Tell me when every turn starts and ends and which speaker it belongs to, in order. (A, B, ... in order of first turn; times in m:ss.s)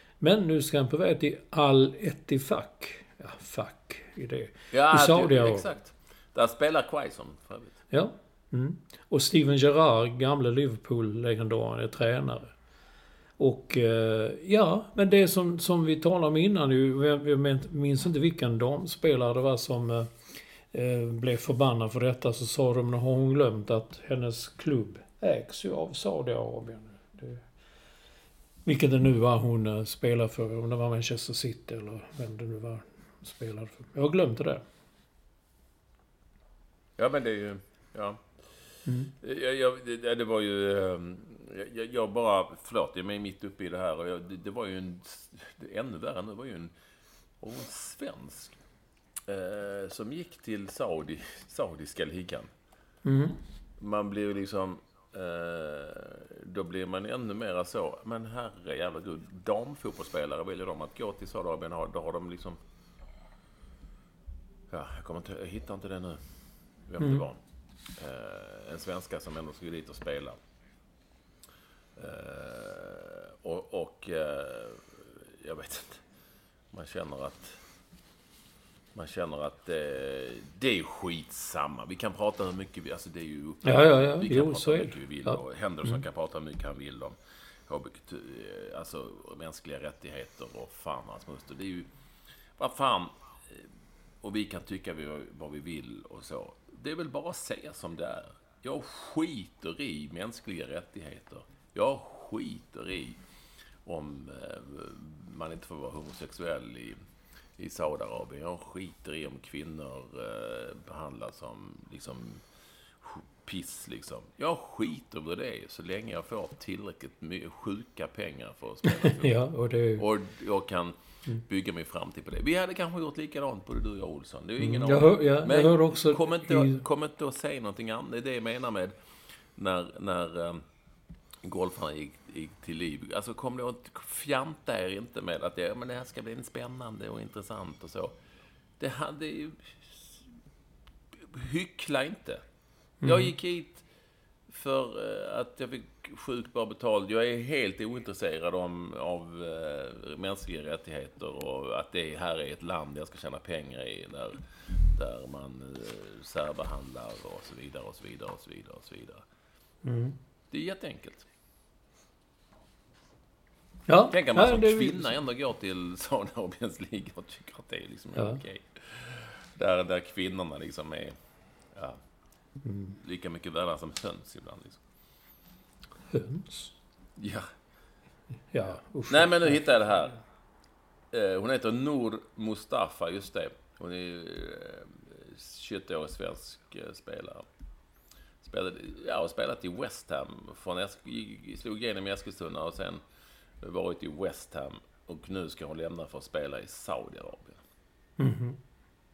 0:00.2-0:05.7 A
0:04.7-0:07.8 B
0:07.9-0:12.5 A
0:13.4-0:20.1 A
0:20.7-0:27.4 A
0:28.6-0:34.6 A
0:37.0-0:38.3 B
0:38.9-0:39.1 A
0:39.1-0:46.7 B
0:47.4-0:48.6 B
0:49.3-0:52.5 B
0:53.0-0:53.4 A
0:53.8-1:02.6 B
1:04.7-1:06.2 B
1:06.9-1:07.4 B
1:08.0-1:10.4 B
1:12.0-1:16.0 B
1:16.7-1:17.6 B
1:18.9-1:31.9 B
1:23.6-1:26.0 A
1:32.6-1:33.7 B
1:34.2-1:43.2 B
1:43.8-1:47.0 B
1:47.6-1:52.4 B
1:53.0-1:59.4 B
1:58.9-2:00.1 A
2:00.0-2:09.0 B
2:04.6-2:06.8 A
2:09.6-2:10.6 B
2:11.4-2:18.2 B
2:18.8-2:20.2 B
2:21.1-2:22.4 B
2:23.0-2:23.3 A
2:23.0-2:23.8 B
2:24.5-2:34.4 B
2:34.9-2:39.2 B
2:39.8-2:40.2 A
2:40.5-2:41.3 B
2:43.9-2:45.1 A
2:44.1-2:51.2 B
2:48.2-2:48.4 A
2:51.7-2:52.0 B
2:52.6-2:53.0 A
2:53.0-2:54.8 B
2:56.1-2:56.7 A
2:57.2-2:57.5 B
2:58.5-2:59.6 A
2:59.1-3:00.2 B
3:01.1-3:07.4 B
3:08.4-3:13.0 B
3:13.6-3:17.6 B
3:18.2-3:18.6 A